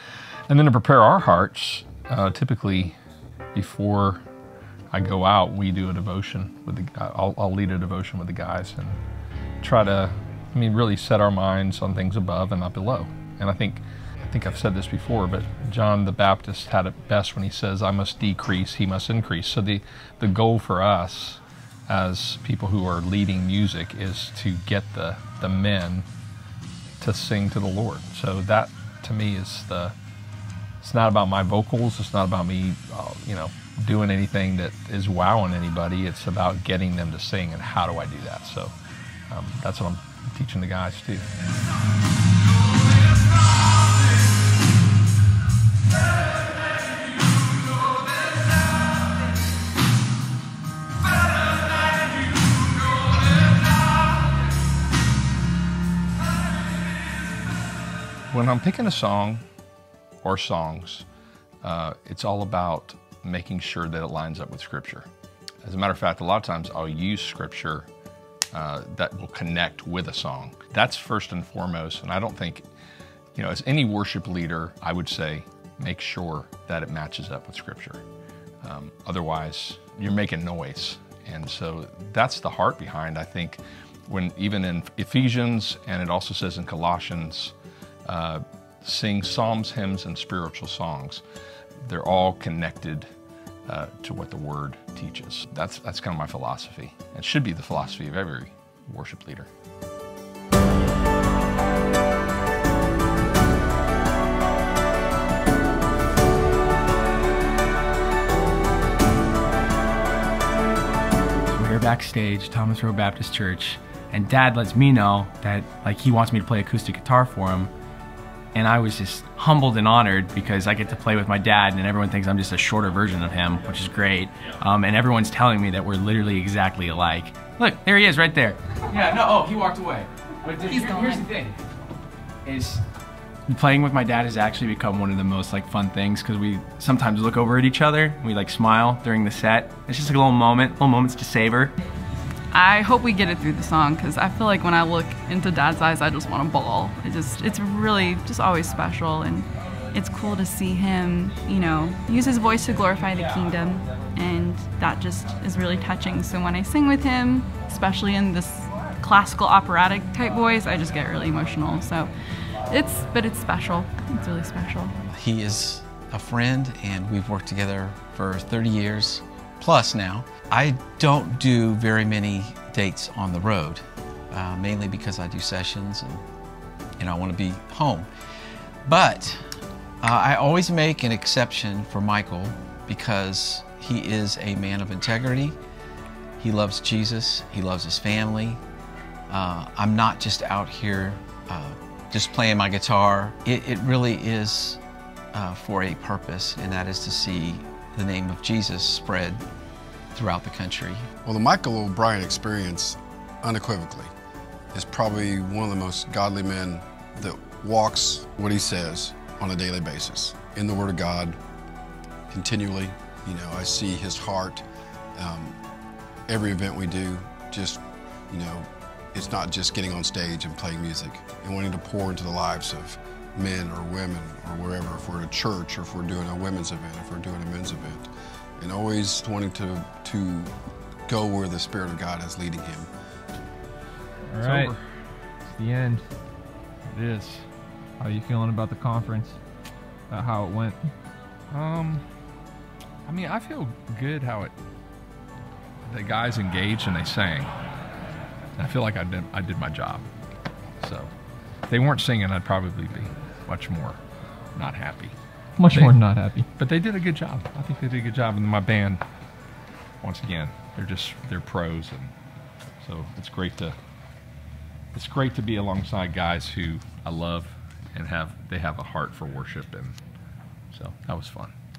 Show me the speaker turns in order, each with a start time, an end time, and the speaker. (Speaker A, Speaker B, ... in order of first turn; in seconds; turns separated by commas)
Speaker A: 0.5-3.0, Speaker A: 3.5-4.2, Speaker A: 4.9-9.0, Speaker A: 9.6-26.1, Speaker A: 27.0-29.9, Speaker A: 30.8-38.7, Speaker A: 39.3-41.3, Speaker A: 58.3-59.4, Speaker A: 60.2-61.0, Speaker A: 61.6-65.1, Speaker A: 65.6-67.9, Speaker A: 68.5-72.6, Speaker A: 73.3-78.0, Speaker A: 78.6-87.5, Speaker A: 88.0-91.2, Speaker A: 91.8-93.1, Speaker A: 93.7-99.5, Speaker B: 111.5-117.7, Speaker B: 118.5-131.6, Speaker C: 130.7-131.2, Speaker B: 132.4-132.8, Speaker B: 133.5-141.7, Speaker C: 142.5-162.1, Speaker C: 162.7-164.9, Speaker D: 165.1-176.2, Speaker D: 177.0-178.1, Speaker D: 178.8-179.4, Speaker D: 180.0-185.5, Speaker D: 186.4-188.6, Speaker D: 189.3-194.8, Speaker D: 195.3-199.4, Speaker D: 200.1-201.1, Speaker E: 201.2-204.1, Speaker E: 204.7-211.4, Speaker E: 212.3-214.6, Speaker E: 215.2-215.5, Speaker E: 216.3-230.5, Speaker E: 231.1-232.9, Speaker F: 234.3-234.7, Speaker A: 234.4-234.8, Speaker F: 235.5-236.1, Speaker A: 236.9-237.5, Speaker F: 238.0-239.4, Speaker F: 240.1-240.9, Speaker A: 241.5-242.0, Speaker A: 243.1-244.5, Speaker A: 245.9-247.5, Speaker A: 248.6-250.1, Speaker A: 250.8-251.1, Speaker A: 251.7-254.0, Speaker A: 254.5-256.0, Speaker F: 255.6-256.5, Speaker A: 256.6-259.0, Speaker A: 260.0-262.1, Speaker A: 262.8-263.8, Speaker A: 264.9-270.0, Speaker A: 270.7-271.5